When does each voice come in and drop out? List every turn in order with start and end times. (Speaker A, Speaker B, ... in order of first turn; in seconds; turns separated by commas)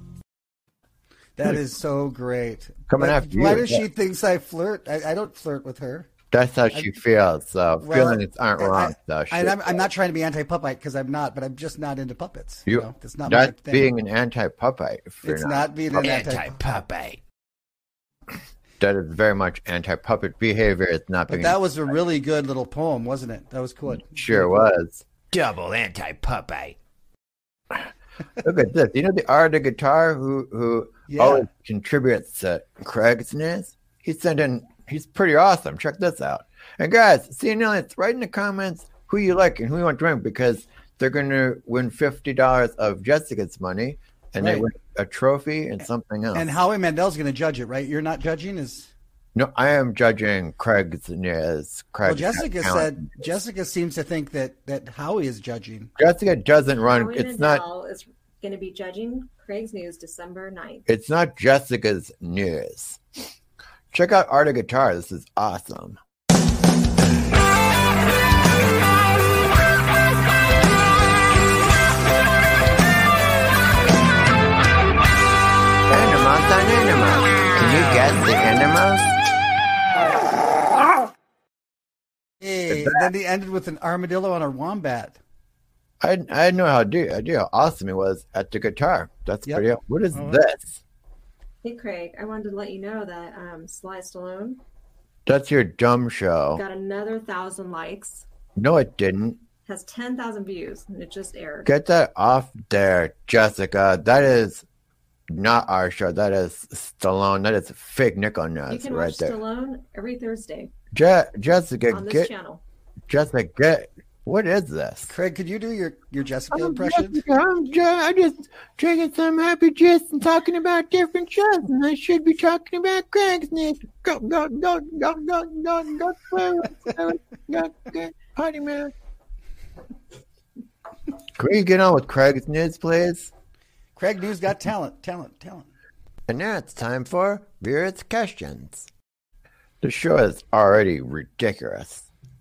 Speaker A: 1.4-6.1, Speaker B: 2.9-3.8, Speaker B: 6.3-9.8, Speaker A: 7.8-13.9, Speaker B: 12.7-16.2, Speaker A: 15.2-16.6, Speaker C: 16.0-16.8, Speaker B: 18.8-21.6, Speaker A: 21.3-24.5, Speaker B: 23.9-25.0, Speaker C: 25.4-26.7, Speaker B: 28.4-46.6, Speaker A: 31.1-31.5, Speaker A: 44.4-44.7, Speaker A: 46.3-48.9, Speaker B: 49.3-53.2, Speaker A: 52.0-55.9, Speaker B: 56.0-57.6, Speaker D: 56.9-60.8, Speaker B: 60.9-63.0, Speaker B: 63.9-66.0, Speaker B: 75.9-79.1, Speaker A: 82.4-85.2, Speaker B: 82.7-83.0, Speaker B: 86.0-90.8, Speaker A: 89.5-90.4, Speaker D: 91.6-94.6, Speaker B: 95.2-96.6, Speaker D: 96.5-98.2, Speaker B: 98.6-99.4, Speaker D: 99.7-101.7, Speaker B: 101.6-104.6, Speaker B: 105.3-109.4, Speaker D: 108.7-110.7, Speaker B: 110.9-112.3, Speaker D: 111.9-112.6, Speaker B: 113.1-115.1, Speaker A: 115.1-117.2, Speaker B: 116.5-128.9, Speaker B: 131.3-133.3, Speaker A: 133.9-135.7, Speaker B: 136.3-138.9, Speaker B: 139.8-142.1